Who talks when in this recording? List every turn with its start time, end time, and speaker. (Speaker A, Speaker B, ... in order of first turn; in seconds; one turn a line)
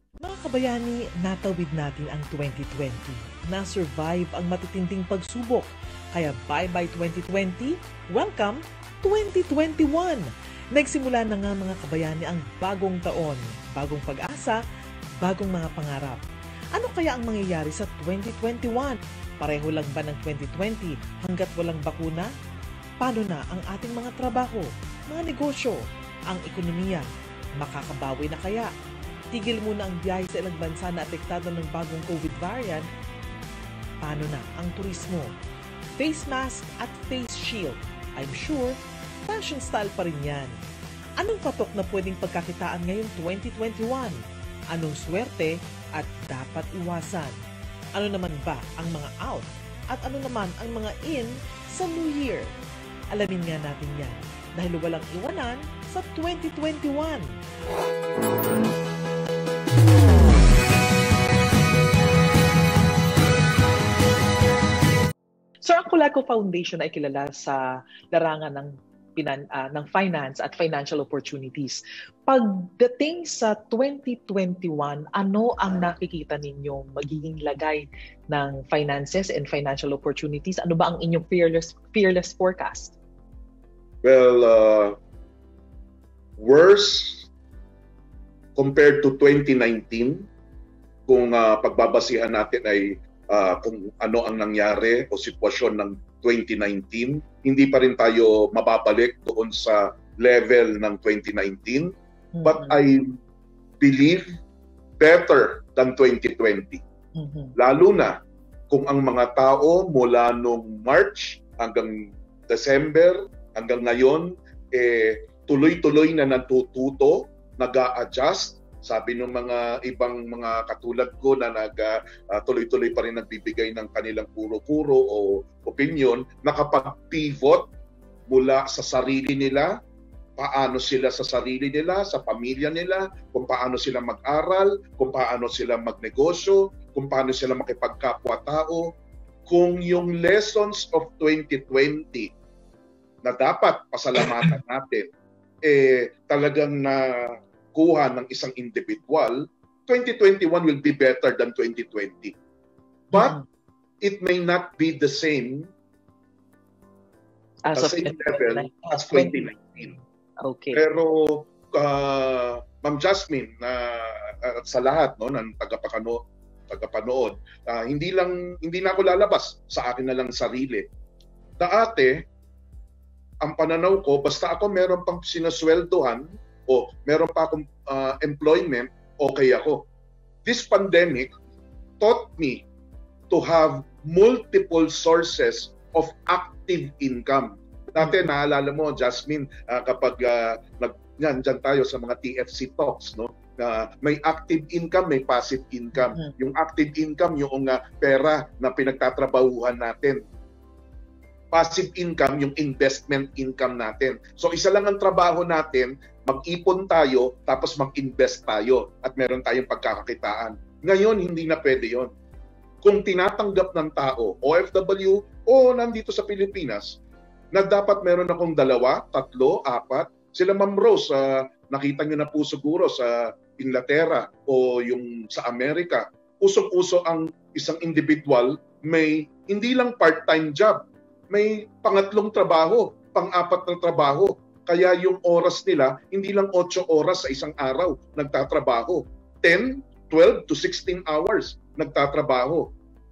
Speaker A: 0.2-14.6
Speaker A: 15.2-16.2
Speaker A: 16.7-22.3
Speaker A: 23.0-28.7
Speaker A: 29.3-32.9
Speaker A: 34.0-35.3
Speaker A: 36.0-40.5
Speaker A: 41.2-44.2
Speaker A: 44.7-47.4
Speaker A: 47.9-52.5
Speaker A: 53.1-57.3
Speaker A: 65.6-82.9
Speaker B: 84.0-85.0
Speaker B: 86.4-87.3
Speaker B: 88.5-90.3
Speaker B: 91.1-101.9
Speaker A: 102.3-102.8
Speaker B: 102.4-103.1
Speaker B: 103.8-104.3
Speaker B: 105.0-106.8
Speaker A: 107.2-107.5
Speaker B: 107.5-108.2
Speaker B: 108.7-127.7
Speaker B: 128.3-129.8
Speaker B: 130.4-138.9
Speaker B: 139.5-142.3
Speaker B: 143.2-145.1
Speaker B: 145.6-152.3
Speaker B: 153.1-153.4
Speaker A: 153.1-153.4
Speaker B: 154.0-155.7
Speaker A: 157.6-160.8
Speaker B: 157.7-159.9
Speaker B: 160.7-170.9
Speaker B: 171.6-172.2
Speaker B: 173.4-179.8
Speaker B: 180.4-181.3
Speaker B: 182.0-182.6
Speaker B: 183.3-200.2
Speaker A: 188.0-188.3
Speaker A: 196.0-196.3
Speaker B: 201.5-212.1
Speaker B: 212.8-217.0
Speaker B: 217.5-242.7